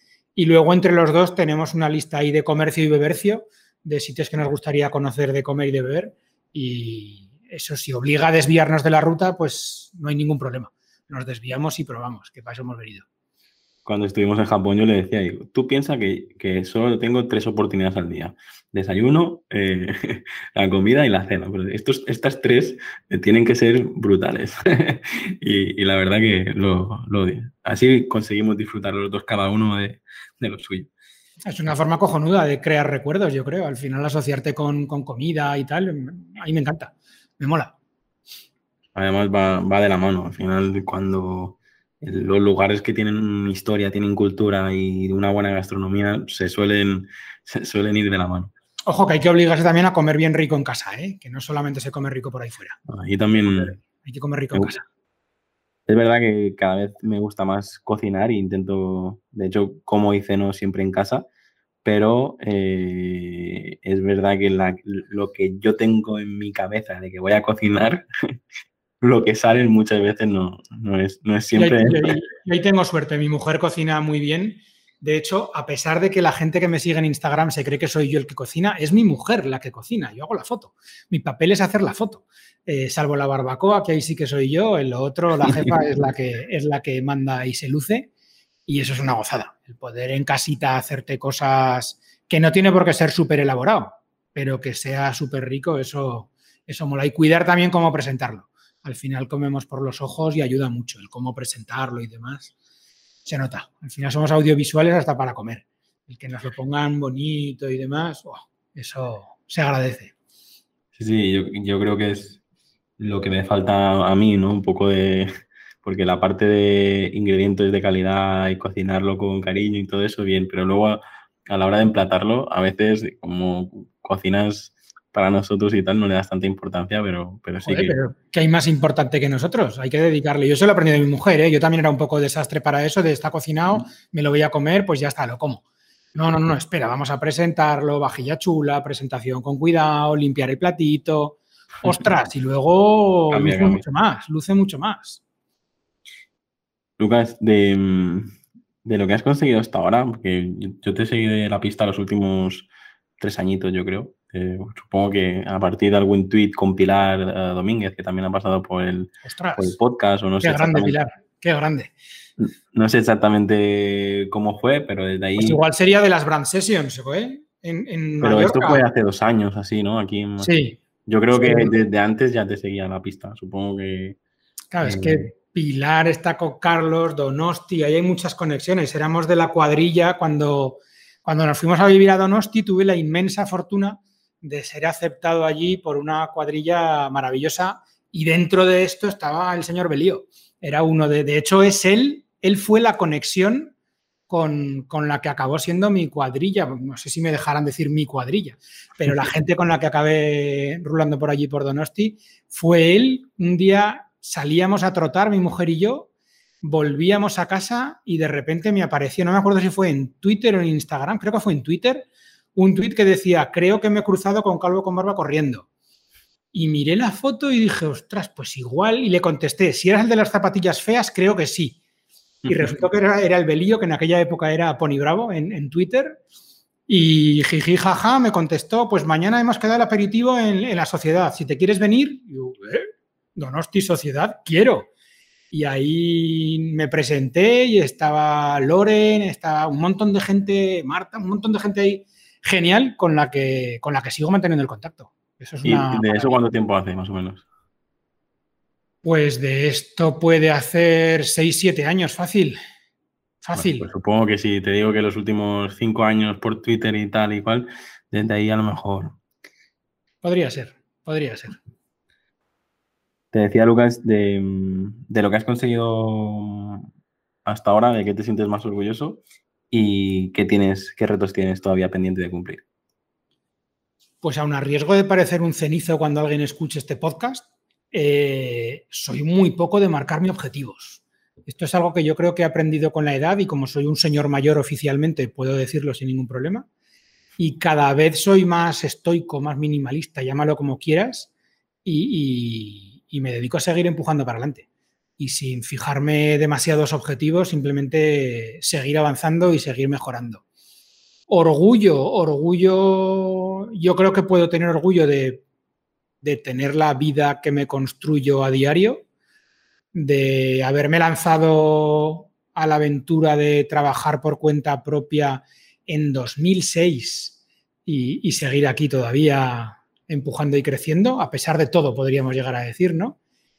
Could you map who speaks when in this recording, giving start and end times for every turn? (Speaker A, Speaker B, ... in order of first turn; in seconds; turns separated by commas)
Speaker A: 0.3-13.1, Speaker B: 13.8-30.9, Speaker A: 31.4-37.7, Speaker B: 38.9-48.5, Speaker A: 48.9-52.8, Speaker B: 52.9-53.8, Speaker A: 53.8-54.8, Speaker B: 55.9-61.2, Speaker B: 61.8-68.0, Speaker B: 69.0-72.1, Speaker A: 71.5-88.1, Speaker A: 88.7-102.5, Speaker A: 103.2-110.1, Speaker B: 111.0-112.4, Speaker B: 113.0-115.3, Speaker B: 115.8-128.0, Speaker A: 127.6-135.6, Speaker A: 136.1-145.2, Speaker B: 143.3-143.8, Speaker B: 147.0-152.7, Speaker B: 153.2-160.9, Speaker A: 159.2-159.8, Speaker A: 160.4-161.9, Speaker B: 162.4-165.6, Speaker A: 165.4-168.8, Speaker B: 168.2-170.5, Speaker A: 170.4-170.8, Speaker B: 171.1-174.2, Speaker A: 171.3-171.7, Speaker A: 174.7-193.7, Speaker B: 174.8-175.3, Speaker A: 194.3-206.1, Speaker A: 206.6-215.7, Speaker A: 216.5-221.8, Speaker A: 222.4-226.2, Speaker A: 226.9-234.9, Speaker A: 235.5-246.4, Speaker B: 245.6-247.4, Speaker A: 249.0-252.6, Speaker A: 253.4-253.9, Speaker B: 253.5-259.2, Speaker A: 260.2-261.6, Speaker B: 263.3-266.9, Speaker B: 267.4-272.6, Speaker A: 274.2-286.7, Speaker A: 287.4-291.3, Speaker A: 291.8-294.6, Speaker A: 295.2-300.4, Speaker A: 301.3-305.4, Speaker A: 306.2-309.0, Speaker A: 309.9-323.2